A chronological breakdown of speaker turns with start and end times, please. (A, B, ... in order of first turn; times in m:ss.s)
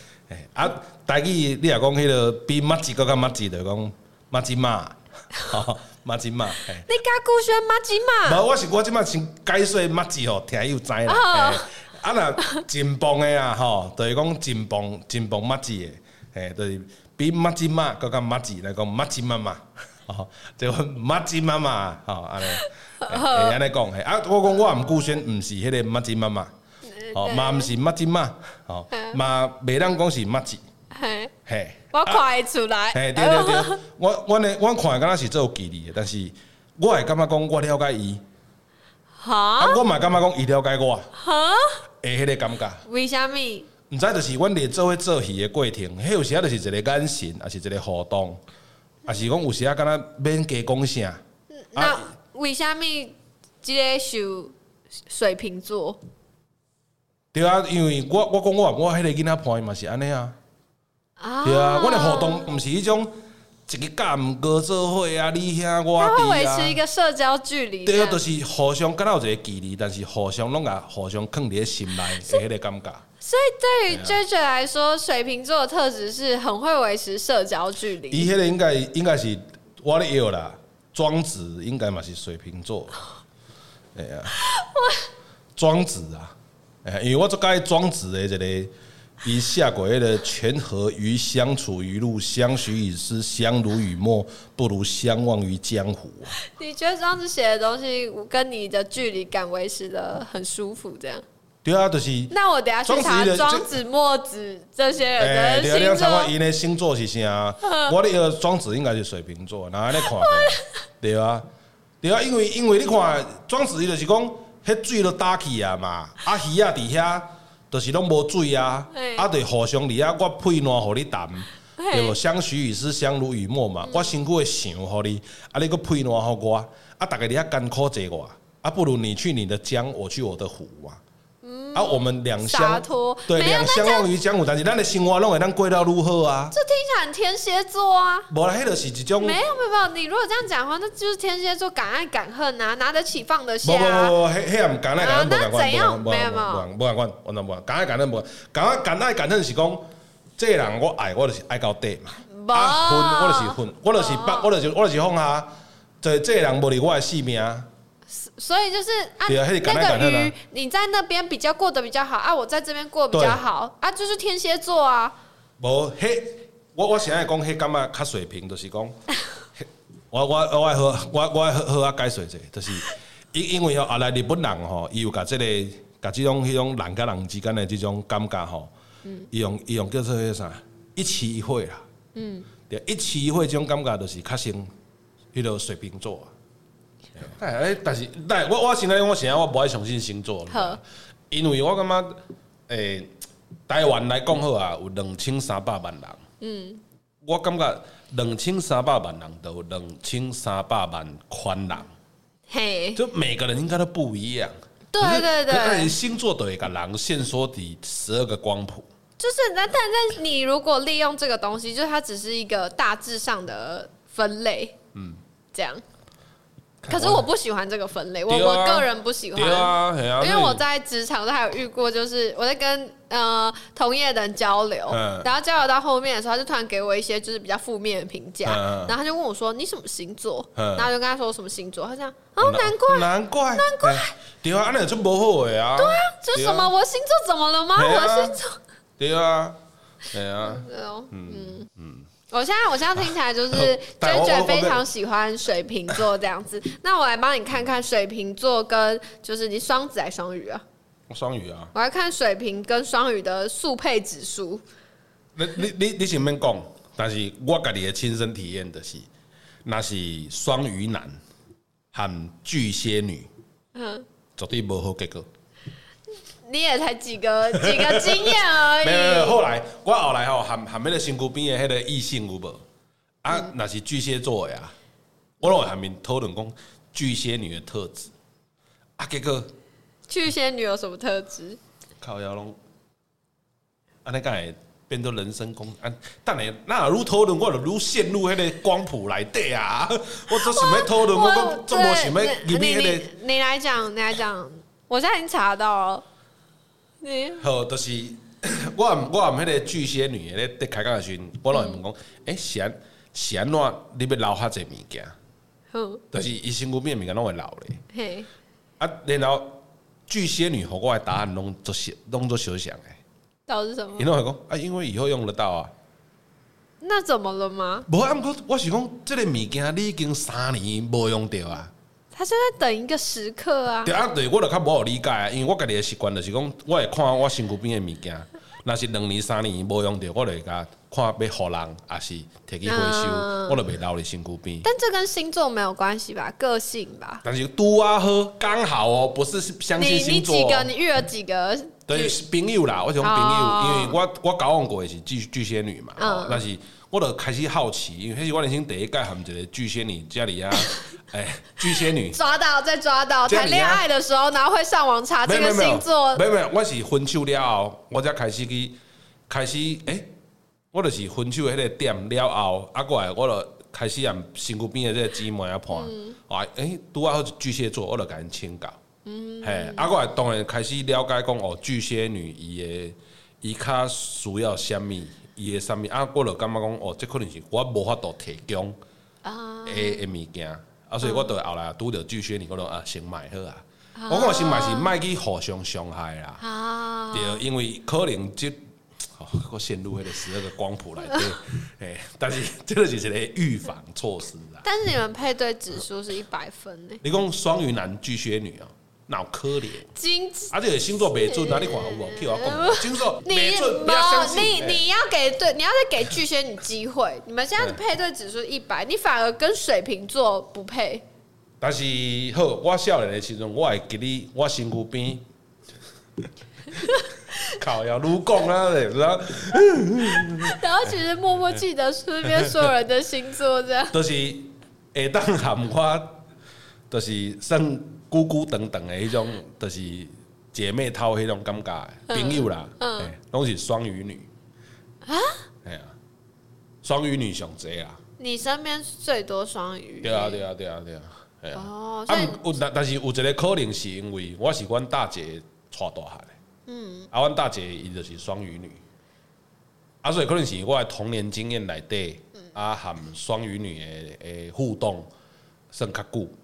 0:00.3-0:06.9 A
0:06.8-0:08.4 B
0:08.2-0:26.5 A
0:11.1-0:11.6 B
0:22.5-0:23.6 B
0:26.9-0:27.7 B
0:27.1-0:30.6 A
0:28.9-0:29.2 B
0:30.9-0:31.3 B
0:31.5-0:32.2 A
0:31.9-0:33.8 B
0:32.9-0:38.2 A
0:39.2-0:39.8 B
0:39.6-0:41.1 A
0:41.2-0:41.8 B
0:42.0-0:42.8 A
0:42.9-0:43.7 B
0:43.9-0:48.4 A
0:49.1-0:51.2 A
0:51.5-0:54.5 B
0:51.8-0:52.0 A
0:55.1-0:56.0 B
0:57.3-1:00.4 A
1:01.2-1:02.5 B
1:01.4-1:03.1 A
1:03.7-1:06.8 A
1:06.0-1:08.2 B
1:07.8-1:13.0 A
1:13.2-1:18.3 B
1:13.9-1:14.2 A
1:18.1-1:23.0 A
1:24.0-1:24.4 A
1:24.4-1:25.1 B
1:25.6-1:28.7 A
1:29.2-1:36.4 A
1:36.4-1:41.2 B
1:41.6-1:42.3 A
1:42.3-1:46.3 B
1:42.8-1:43.7 A
1:45.2-1:51.4 A
1:47.6-1:48.0 B
1:50.0-1:50.6 B
1:52.0-2:11.0 A
1:58.9-1:59.3 B
2:01.8-2:02.2 B
2:03.8-2:04.1 B
2:11.4-2:14.1 B
2:11.7-2:16.6 A
2:16.5-2:18.3 B
2:18.3-2:19.4 A
2:19.2-2:24.2 B
2:23.6-2:29.8 A
2:25.0-2:26.7 B
2:30.4-2:37.7 A
2:32.3-2:34.5 B
2:38.1-2:45.2 B
2:39.3-2:40.3 A
2:43.1-2:43.4 A
2:45.6-2:49.0 A
2:49.6-2:58.7 A
2:59.3-3:01.8 A
3:02.2-3:02.5 B
3:02.7-3:04.7 A
3:05.3-3:06.3 A
3:07.2-3:13.1 A
3:10.5-3:10.8 B
3:13.7-3:16.2 A
3:16.4-3:16.8 B
3:17.2-3:21.9 A
3:22.5-3:23.0 B
3:23.0-3:28.9 A
3:24.9-3:25.9 B
3:29.2-3:34.8 B
3:34.9-3:35.2 A
3:35.5-3:35.8 B
3:36.8-3:37.3 A
3:36.9-3:54.1 B
3:38.3-3:40.6 A
3:44.9-3:45.3 A
3:48.4-3:49.0 A
3:50.6-3:50.9 A
3:52.4-3:56.7 A
3:55.8-3:58.6 B
3:57.8-3:58.4 A
3:59.0-4:02.1 A
4:00.4-4:01.7 B
4:02.3-4:10.6 B
4:02.9-4:04.8 A
4:11.1-4:11.7 A
4:11.7-4:14.6 B
4:15.4-4:19.1 A
4:19.6-4:21.2 A
4:21.9-4:23.3 A
4:23.8-4:24.0 B
4:24.4-4:25.3 A
4:26.5-4:29.4 B
4:27.5-4:32.6 A
4:33.2-4:34.7 A
4:35.4-4:38.1 A
4:39.0-4:39.5 A
4:40.1-4:41.6 B
4:42.0-4:42.6 A
4:44.0-4:53.1 A
4:50.3-4:56.0 B
4:57.0-4:57.4 B
4:57.4-5:05.1 A
5:01.5-5:01.8 B
5:05.7-5:06.0 B
5:06.1-5:07.8 A
5:07.9-5:08.3 B
5:08.8-5:13.0 A
5:13.5-5:14.1 B
5:14.0-5:15.7 A
5:16.8-5:17.9 B
5:17.9-5:21.7 A
5:22.1-5:23.9 B
5:23.8-5:34.7 A
5:32.7-5:33.6 B
5:34.6-5:37.2 B
5:37.2-5:40.7 A
5:39.8-5:42.2 B
5:41.9-5:52.2 A
5:43.0-5:44.0 B
5:46.0-5:46.4 B
5:51.9-5:56.2 B
5:53.3-5:53.8 A
5:55.2-5:58.8 A
5:59.3-6:00.1 A
6:00.7-6:08.8 A
6:05.7-6:06.2 B
6:09.0-6:09.9 B
6:09.4-6:18.8 A
6:19.2-6:20.0 B
6:19.6-6:26.4 A
6:21.0-6:21.3 B
6:24.0-6:24.9 B
6:26.4-6:27.4 B
6:27.1-6:34.6 A
6:34.6-6:37.0 B
6:37.0-6:39.9 A
6:39.9-6:40.5 B
6:40.5-6:44.8 A
6:41.2-6:51.0 B
6:51.6-6:55.3 A
6:57.4-7:00.6 A
7:00.4-7:04.0 B
7:02.2-7:02.7 A
7:03.9-7:06.2 A
7:06.9-7:14.3 A
7:12.1-7:13.1 B
7:15.1-7:15.4 B
7:15.6-7:16.0 A
7:16.8-7:18.0 A
7:18.2-7:20.4 B
7:20.0-7:26.4 A
7:21.6-7:22.4 B
7:26.7-7:27.1 B
7:27.1-7:28.8 A
7:30.0-7:35.1 A
7:35.7-7:36.4 A